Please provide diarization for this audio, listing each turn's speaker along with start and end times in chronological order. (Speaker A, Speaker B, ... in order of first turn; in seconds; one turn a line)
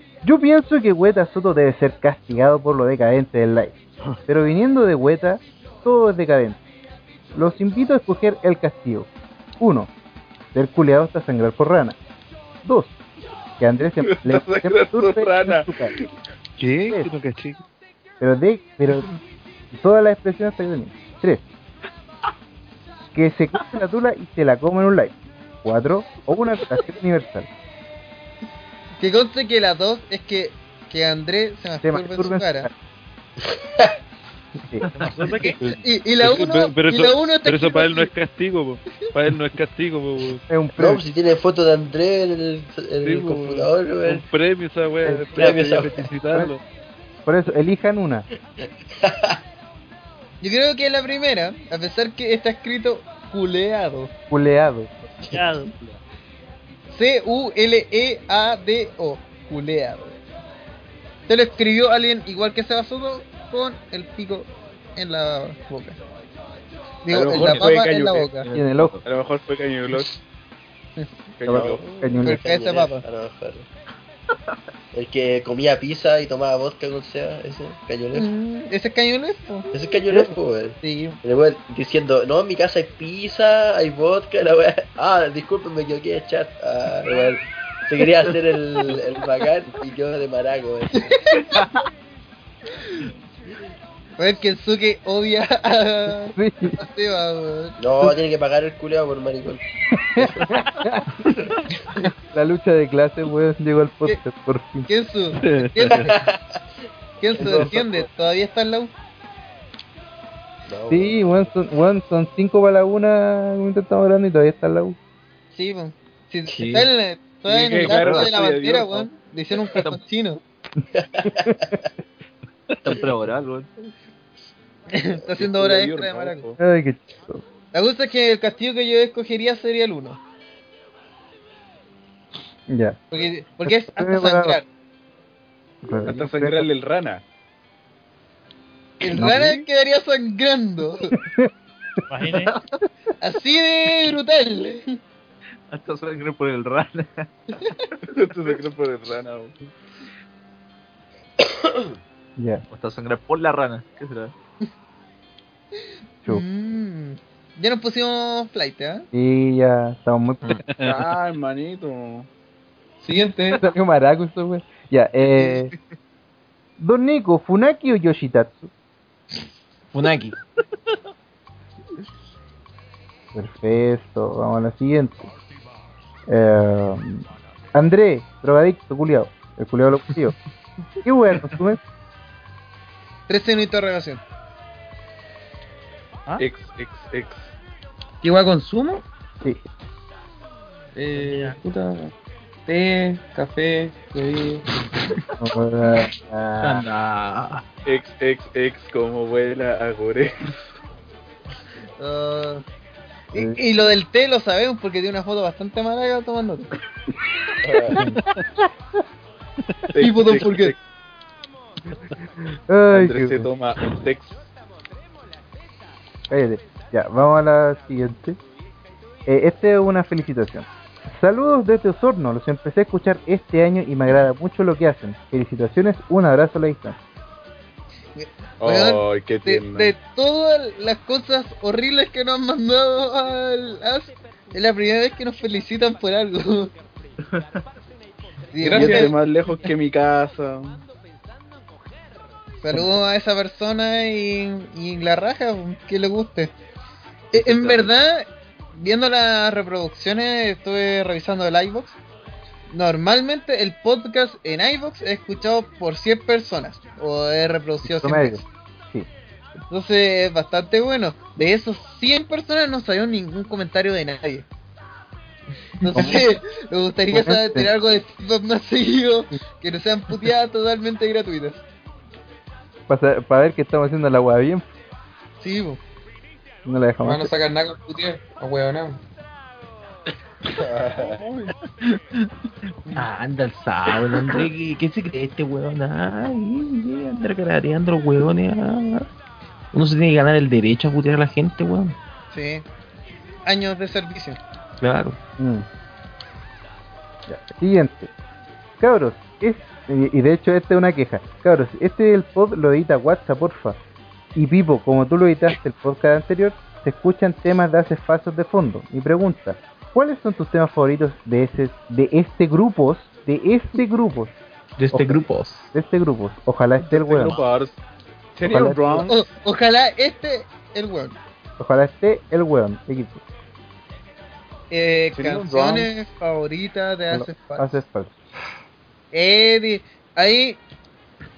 Speaker A: 0.2-6.6
Speaker A: 7.3-9.9
Speaker A: 10.5-12.0
Speaker A: 12.6-12.9
Speaker A: 13.6-15.9
Speaker B: 14.1-15.7
Speaker C: 16.6-17.6
Speaker A: 18.2-19.1
Speaker A: 19.7-21.4
Speaker A: 23.1-27.5
Speaker D: 29.0-32.7
Speaker A: 31.8-32.7
Speaker E: 33.6-33.9
Speaker F: 34.9-35.6
Speaker D: 35.3-38.1
Speaker C: 35.6-40.4
Speaker A: 40.5-41.0
Speaker E: 40.8-44.2
Speaker C: 43.0-46.6
Speaker A: 45.0-45.4
Speaker E: 45.3-46.1
Speaker A: 47.2-48.3
Speaker E: 48.6-49.4
Speaker D: 50.4-54.1
Speaker A: 54.3-54.9
Speaker F: 55.3-55.7
Speaker D: 56.9-60.1
Speaker D: 61.3-66.0
Speaker D: 67.0-68.5
Speaker B: 67.1-68.5
Speaker G: 68.5-69.0
Speaker A: 68.5-69.0
Speaker B: 69.0-70.1
Speaker B: 71.4-71.8
Speaker A: 71.4-72.4
Speaker E: 71.5-73.7
Speaker D: 72.2-73.0
Speaker E: 74.9-78.3
Speaker D: 78.1-79.7
Speaker E: 79.7-91.3
Speaker D: 80.8-81.2
Speaker D: 91.3-91.6
Speaker D: 94.2-97.8
Speaker A: 96.3-96.8
Speaker E: 97.8-99.6
Speaker A: 99.9-101.2
Speaker E: 100.2-100.6
Speaker A: 102.3-104.9
Speaker D: 104.9-106.1
Speaker C: 105.4-106.1
Speaker E: 105.9-106.6
Speaker D: 107.2-108.9
Speaker E: 107.3-108.1
Speaker A: 107.4-107.7
Speaker E: 110.7-111.5
Speaker A: 110.9-115.0
Speaker D: 115.5-120.4
Speaker H: 116.5-116.9
Speaker B: 117.5-119.1
Speaker G: 117.9-118.2
Speaker E: 120.9-121.9
Speaker A: 121.2-121.8
Speaker G: 122.8-123.7
Speaker D: 124.9-126.5
Speaker B: 125.4-126.6
Speaker A: 126.6-127.4
Speaker D: 127.7-130.2
Speaker A: 132.7-133.0
Speaker D: 133.1-134.6
Speaker A: 133.6-134.6
Speaker A: 135.8-136.7
Speaker B: 136.0-137.2
Speaker D: 139.0-141.1
Speaker A: 139.1-139.6
Speaker A: 141.1-141.5
Speaker F: 142.1-142.5
Speaker D: 143.2-144.9
Speaker G: 145.7-147.7
Speaker B: 148.1-149.6
Speaker A: 152.4-152.6
Speaker G: 152.7-154.3
Speaker D: 156.2-159.1
Speaker A: 159.1-160.6
Speaker B: 160.8-162.3
Speaker I: 163.0-163.6
Speaker A: 163.6-165.7
Speaker A: 166.8-168.7
Speaker H: 169.9-170.3
Speaker A: 173.3-175.3
Speaker A: 176.3-180.3
Speaker A: 181.0-181.8
Speaker D: 183.3-184.2
Speaker B: 186.4-187.5
Speaker I: 188.2-189.0
Speaker I: 190.9-192.1
Speaker F: 191.1-191.6
Speaker I: 192.7-194.7
Speaker A: 195.4-196.8
Speaker H: 196.6-197.6
Speaker B: 197.8-200.3
Speaker D: 202.0-202.6
Speaker D: 203.3-206.7
Speaker A: 203.3-203.6
Speaker E: 207.6-208.0
Speaker B: 209.9-210.8
Speaker D: 210.0-210.7
Speaker A: 212.7-213.5
Speaker B: 212.9-214.5
Speaker A: 216.3-218.4
Speaker A: 219.2-227.0
Speaker D: 228.2-236.7
Speaker B: 228.6-229.9
Speaker D: 238.5-239.1
Speaker I: 238.6-239.2
Speaker B: 238.7-240.8
Speaker D: 242.6-246.5
Speaker D: 247.3-252.0
Speaker H: 247.4-247.8
Speaker D: 252.7-258.4
Speaker A: 257.8-259.1
Speaker D: 259.7-264.4
Speaker D: 265.8-271.6
Speaker A: 265.9-266.2
Speaker A: 267.1-267.7
Speaker A: 272.9-274.7
Speaker D: 275.4-275.8
Speaker A: 276.6-277.3
Speaker I: 277.0-279.0
Speaker E: 280.5-281.2
Speaker B: 281.0-281.4
Speaker H: 282.9-289.1
Speaker H: 289.7-291.9
Speaker D: 292.3-292.6
Speaker D: 293.4-294.4
Speaker H: 294.8-295.2
Speaker A: 295.4-295.6
Speaker A: 297.3-298.1
Speaker A: 298.8-303.8
Speaker A: 304.3-314.3
Speaker H: 314.8-315.7
Speaker A: 314.9-315.2
Speaker A: 315.7-317.4
Speaker B: 316.8-317.8
Speaker B: 318.4-319.2
Speaker A: 318.4-319.1
Speaker D: 319.1-321.2
Speaker A: 321.6-323.2
Speaker D: 324.7-327.7
Speaker B: 325.1-325.9
Speaker A: 327.1-328.1
Speaker D: 329.1-330.6